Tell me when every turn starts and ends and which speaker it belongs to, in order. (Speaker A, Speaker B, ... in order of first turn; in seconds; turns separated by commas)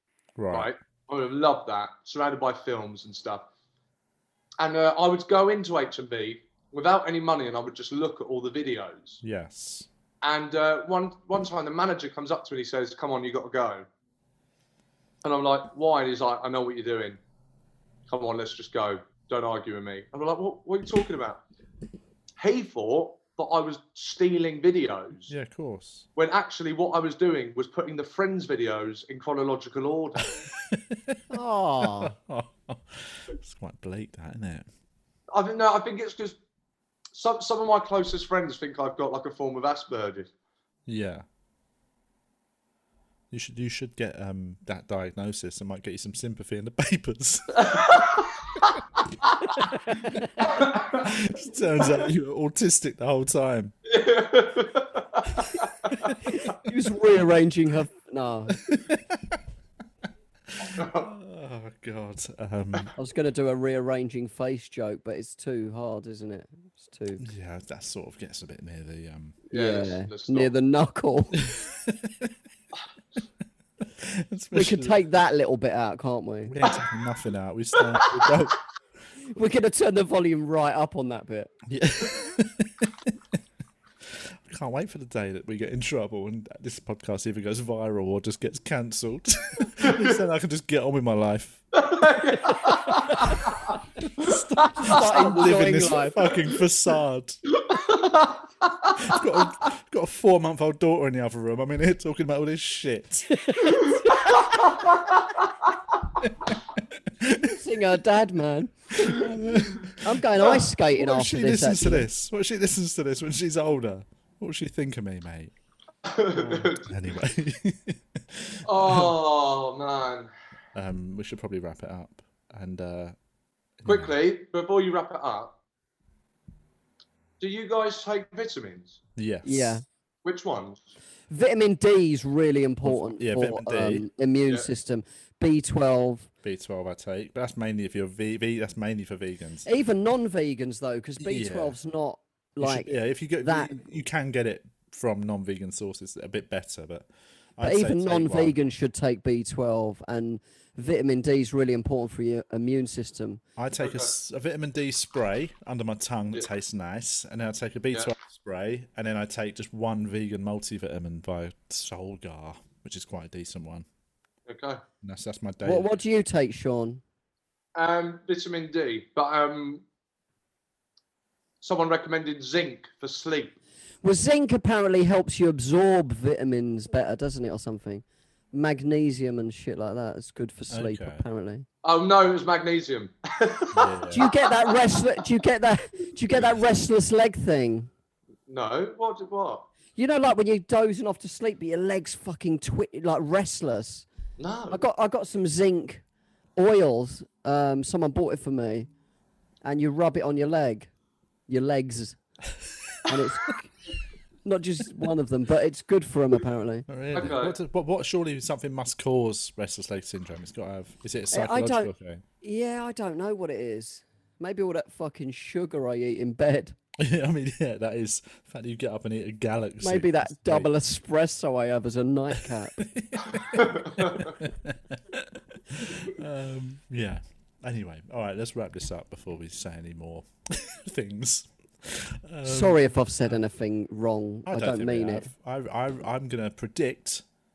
Speaker A: 0.4-0.7, Speaker B: 0.5-3.5, Speaker B: 4.6-9.2, Speaker A: 9.2-9.9, Speaker B: 10.2-13.9, Speaker B: 15.2-17.2, Speaker B: 18.1-21.4, Speaker B: 22.4-25.3, Speaker A: 25.3-26.1, Speaker B: 26.1-30.4, Speaker A: 30.4-31.2, Speaker C: 31.3-32.1, Speaker A: 31.8-34.6, Speaker B: 35.3-36.4, Speaker B: 37.1-40.3, Speaker A: 40.9-41.2, Speaker A: 43.3-48.1, Speaker B: 47.5-48.4, Speaker C: 49.7-50.4, Speaker A: 50.4-53.7, Speaker B: 50.4-51.0, Speaker B: 53.9-56.0, Speaker C: 56.3-58.6, Speaker A: 58.5-59.4, Speaker A: 60.6-62.9, Speaker B: 60.6-61.1, Speaker C: 63.0-67.2, Speaker A: 67.2-69.4, Speaker B: 69.5-70.5, Speaker C: 69.5-71.4, Speaker A: 71.3-72.3, Speaker A: 73.8-75.0, Speaker C: 74.5-76.5, Speaker A: 76.5-78.6, Speaker C: 79.3-81.5, Speaker A: 81.7-83.2, Speaker A: 84.0-91.6, Speaker B: 89.8-90.2, Speaker B: 91.7-95.2, Speaker A: 94.0-97.4, Speaker C: 94.8-96.2, Speaker B: 97.5-99.2, Speaker A: 99.0-103.4, Speaker C: 103.3-104.9, Speaker B: 104.2-105.4, Speaker A: 106.2-107.5, Speaker C: 107.3-109.4, Speaker A: 109.0-115.5, Speaker C: 110.0-112.1, Speaker B: 116.1-116.9, Speaker C: 116.3-116.7, Speaker A: 116.8-119.1, Speaker B: 118.7-120.3, Speaker A: 120.7-123.2, Speaker A: 123.8-124.1, Speaker B: 123.9-125.5, Speaker B: 127.4-129.0, Speaker A: 129.2-129.8, Speaker C: 129.4-129.8, Speaker B: 130.2-130.8, Speaker C: 131.3-136.3, Speaker A: 132.8-134.1, Speaker A: 136.4-139.7, Speaker C: 139.7-143.7, Speaker A: 141.2-141.8, Speaker A: 142.6-148.6, Speaker C: 147.6-153.4, Speaker A: 153.6-163.9, Speaker B: 153.8-154.1, Speaker B: 164.5-164.8, Speaker A: 165.0-166.0, Speaker C: 165.6-167.0, Speaker B: 167.8-169.8, Speaker B: 171.6-173.6, Speaker C: 174.0-181.7, Speaker A: 180.7-181.2, Speaker B: 181.8-185.3, Speaker A: 183.7-184.3, Speaker C: 184.1-187.9, Speaker A: 186.3-186.6, Speaker B: 188.5-189.7, Speaker C: 189.9-194.1, Speaker B: 194.4-194.8, Speaker C: 194.7-196.0, Speaker C: 196.6-198.9, Speaker C: 199.6-200.9, Speaker C: 201.5-202.2, Speaker C: 203.1-203.7, Speaker C: 204.4-206.9, Speaker A: 206.9-212.2, Speaker B: 207.1-207.6, Speaker C: 211.3-211.9, Speaker C: 212.4-216.7, Speaker A: 217.0-220.7, Speaker C: 219.8-222.8, Speaker A: 222.4-233.4, Speaker B: 223.4-224.3, Speaker C: 232.4-235.3, Speaker A: 234.5-237.2